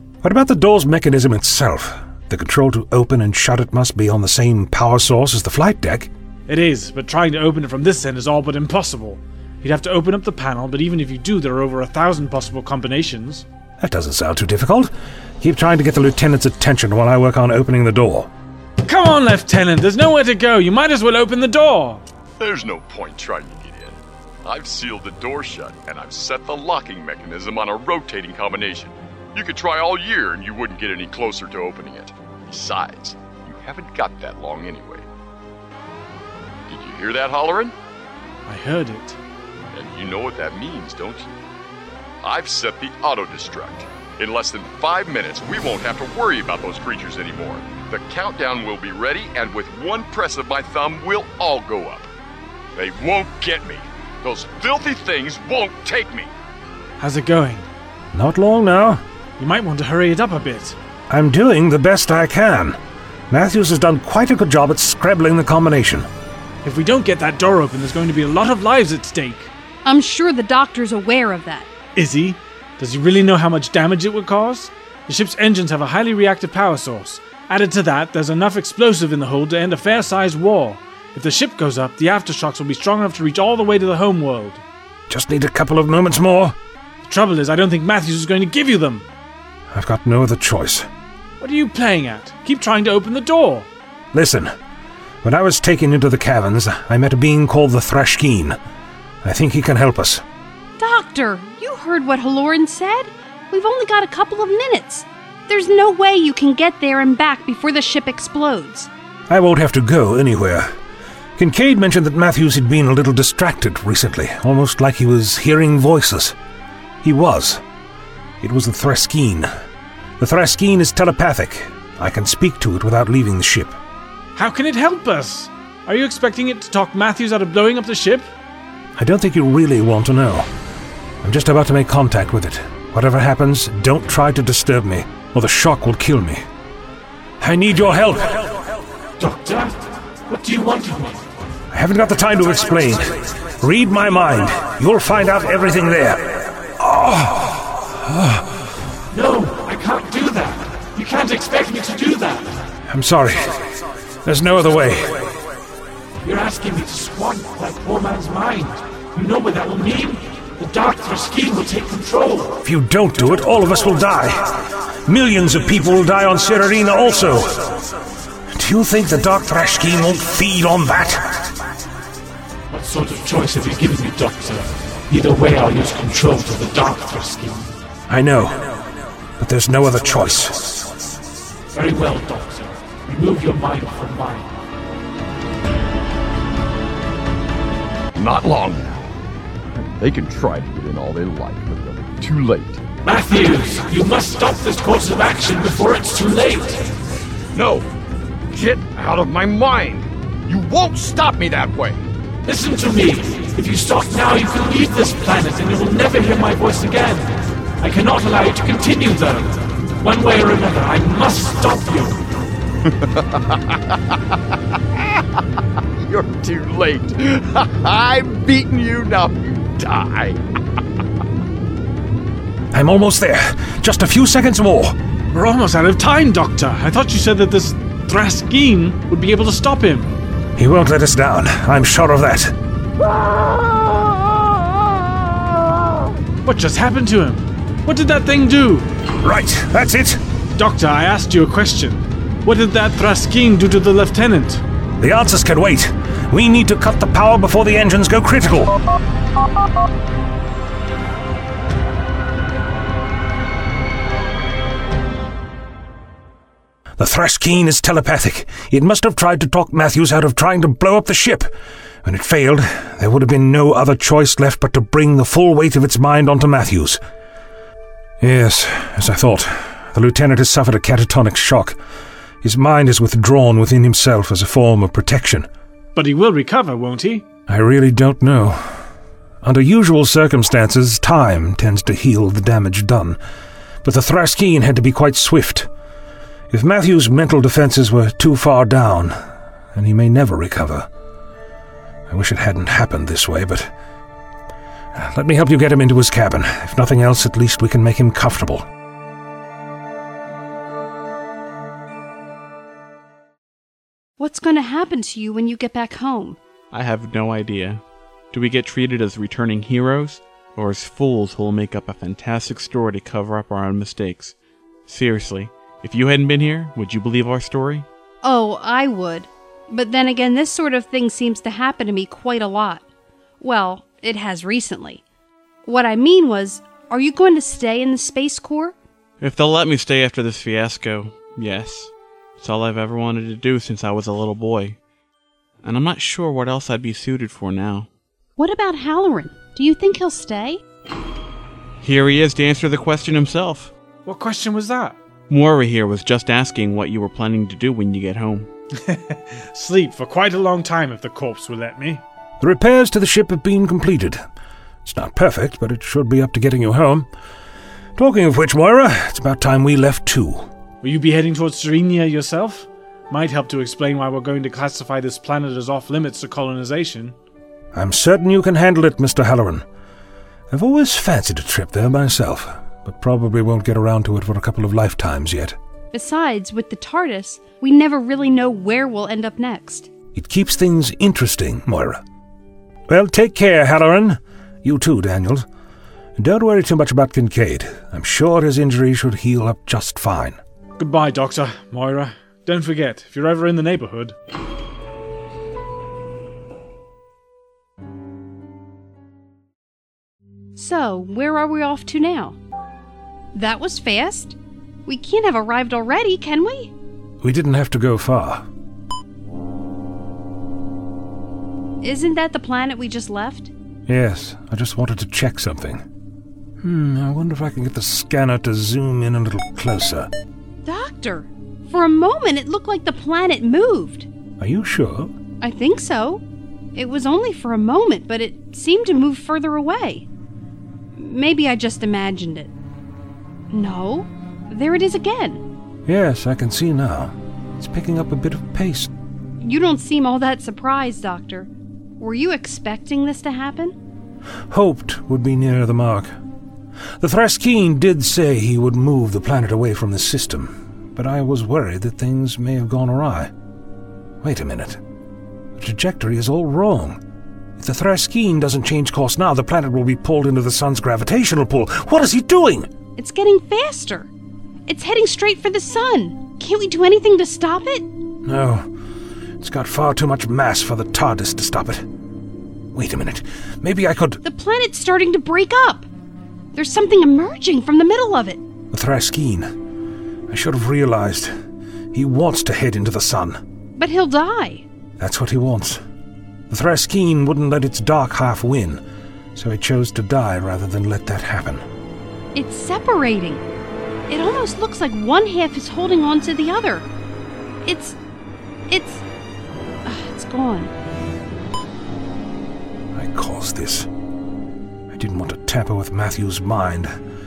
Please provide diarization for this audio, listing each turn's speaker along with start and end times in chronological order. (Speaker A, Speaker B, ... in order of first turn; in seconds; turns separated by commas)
Speaker A: 0.2-6.1, Speaker B: 6.5-13.5, Speaker A: 13.8-18.3, Speaker B: 18.8-22.0, Speaker C: 22.4-35.1, Speaker C: 36.7-37.8, Speaker B: 38.5-39.2, Speaker C: 39.7-41.3, Speaker C: 42.2-52.1, Speaker C: 52.8-56.3, Speaker B: 57.0-57.7, Speaker A: 58.1-59.0, Speaker B: 59.4-60.8, Speaker A: 61.1-62.8, Speaker A: 63.3-66.1, Speaker B: 66.6-69.5, Speaker D: 69.8-71.7, Speaker B: 72.0-84.6, Speaker A: 85.1-86.6, Speaker B: 87.0-89.1, Speaker A: 89.7-90.9, Speaker B: 91.4-93.7, Speaker A: 94.1-94.5, Speaker A: 95.2-98.6, Speaker A: 99.2-100.2, Speaker D: 100.8-108.9, Speaker A: 109.3-110.7, Speaker A: 111.4-116.4, Speaker A: 117.0-117.6, Speaker A: 118.4-119.5, Speaker A: 120.2-123.8, Speaker B: 124.3-128.3, Speaker A: 129.0-130.5, Speaker A: 131.2-136.4, Speaker A: 137.4-138.6, Speaker E: 139.2-141.2, Speaker A: 141.7-148.6, Speaker E: 149.1-152.6, Speaker A: 152.9-153.7, Speaker A: 154.2-155.3, Speaker E: 156.2-162.6, Speaker A: 162.6-167.8, Speaker A: 168.5-171.5, Speaker E: 172.7-177.7, Speaker A: 178.1-178.8, Speaker A: 179.4-180.8, Speaker E: 181.7-184.5, Speaker C: 188.2-189.1, Speaker C: 189.8-192.8, Speaker E: 193.1-196.9, Speaker C: 197.6-197.9, Speaker C: 198.5-202.1, Speaker E: 202.4-212.2, Speaker C: 212.8-215.2, Speaker C: 216.0-220.8, Speaker A: 222.7-225.0, Speaker B: 225.3-230.2, Speaker A: 230.6-232.6, Speaker C: 233.5-234.0, Speaker B: 236.4-238.9, Speaker A: 239.2-240.2, Speaker B: 240.6-244.6, Speaker A: 245.0-248.8, Speaker A: 257.0-261.5, Speaker A: 262.0-267.0, Speaker A: 268.2-271.8, Speaker A: 272.4-275.5, Speaker B: 275.9-277.2, Speaker A: 277.5-278.8, Speaker A: 279.4-283.2, Speaker A: 283.8-285.7, Speaker A: 286.5-289.2, Speaker A: 289.7-290.9, Speaker A: 292.1-293.7, Speaker A: 294.9-298.6, Speaker D: 304.2-306.4, Speaker F: 306.7-314.4, Speaker F: 314.9-317.9, Speaker D: 318.2-322.8, Speaker D: 323.4-325.0, Speaker D: 325.7-328.8, Speaker F: 329.2-334.8, Speaker F: 335.6-337.9, Speaker D: 338.4-340.6, Speaker F: 341.8-343.7, Speaker B: 344.1-345.0, Speaker F: 345.3-348.5, Speaker B: 348.8-352.0, Speaker A: 352.4-354.2, Speaker A: 354.9-357.1, Speaker A: 358.0-360.5, Speaker B: 360.8-367.2, Speaker A: 367.7-369.6, Speaker A: 370.5-375.6, Speaker D: 375.9-379.9, Speaker A: 380.1-382.0, Speaker A: 382.9-385.5, Speaker A: 386.2-390.4, Speaker B: 390.8-394.1, Speaker D: 400.6-402.4, Speaker D: 403.3-406.7, Speaker A: 407.2-408.5, Speaker D: 411.8-413.5, Speaker A: 413.9-415.8, Speaker A: 416.6-420.1, Speaker D: 420.6-424.1, Speaker A: 424.4-425.1, Speaker D: 425.4-426.2, Speaker D: 426.8-430.1, Speaker D: 431.0-432.5, Speaker D: 433.5-435.4, Speaker A: 435.9-438.9, Speaker D: 439.4-443.8, Speaker A: 444.5-446.1, Speaker A: 447.0-453.3, Speaker A: 454.2-454.8, Speaker A: 455.6-457.0, Speaker A: 457.6-462.7, Speaker D: 463.0-464.1, Speaker D: 464.7-467.9, Speaker A: 468.2-468.7, Speaker A: 469.4-471.9, Speaker A: 472.7-474.2, Speaker D: 474.2-475.9, Speaker D: 476.5-478.4, Speaker A: 478.7-479.5, Speaker A: 480.3-481.3, Speaker A: 481.9-483.4, Speaker D: 483.8-484.6, Speaker A: 485.0-485.8, Speaker A: 486.5-488.8, Speaker A: 489.4-491.6, Speaker D: 492.3-493.4, Speaker D: 494.1-496.9, Speaker D: 497.6-498.0, Speaker D: 498.7-499.0, Speaker D: 499.9-500.7, Speaker A: 502.9-503.9, Speaker A: 504.9-506.9